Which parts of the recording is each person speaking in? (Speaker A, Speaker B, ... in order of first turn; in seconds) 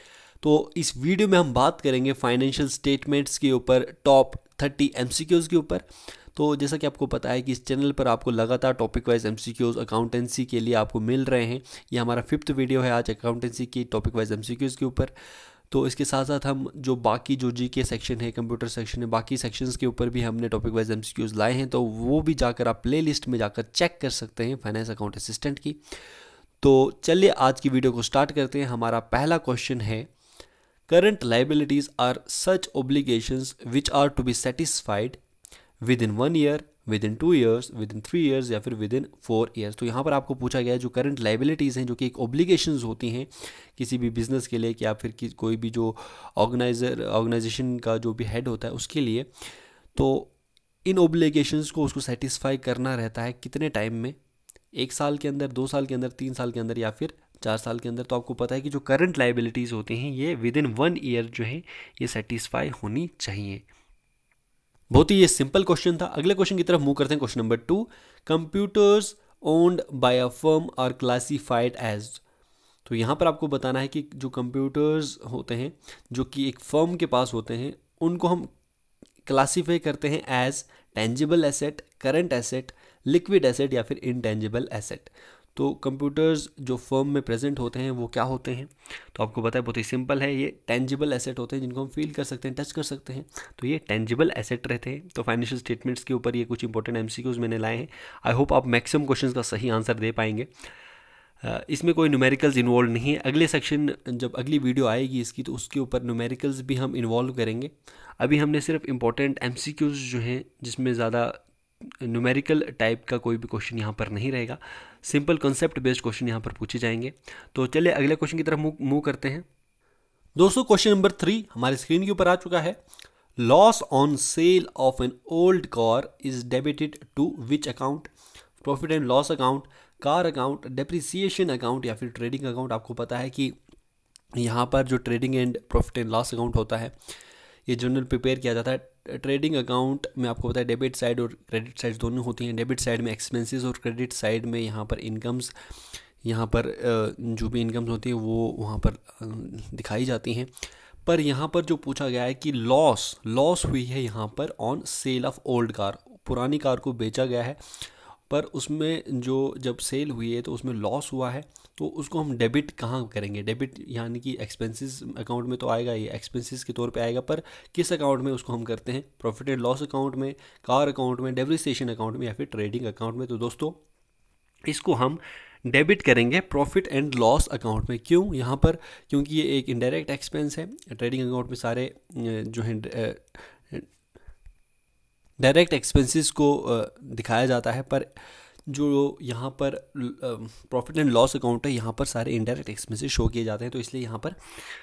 Speaker A: 0.4-15.1, 15.7-25.8, 26.6-30.1, 30.9-35.2, 35.8-49.3, 50.0-50.3, 50.9-54.2, 54.7-63.6, 64.9-72.2, 72.8-78.5, 79.2-100.5, 101.4-119.5, 120.4-122.8, 123.4-133.6, 134.3-136.9, 137.7-145.5, 146.2-150.5, 151.0-157.6, 158.3-173.8, 174.7-183.9, 185.4-188.1, 188.7-194.4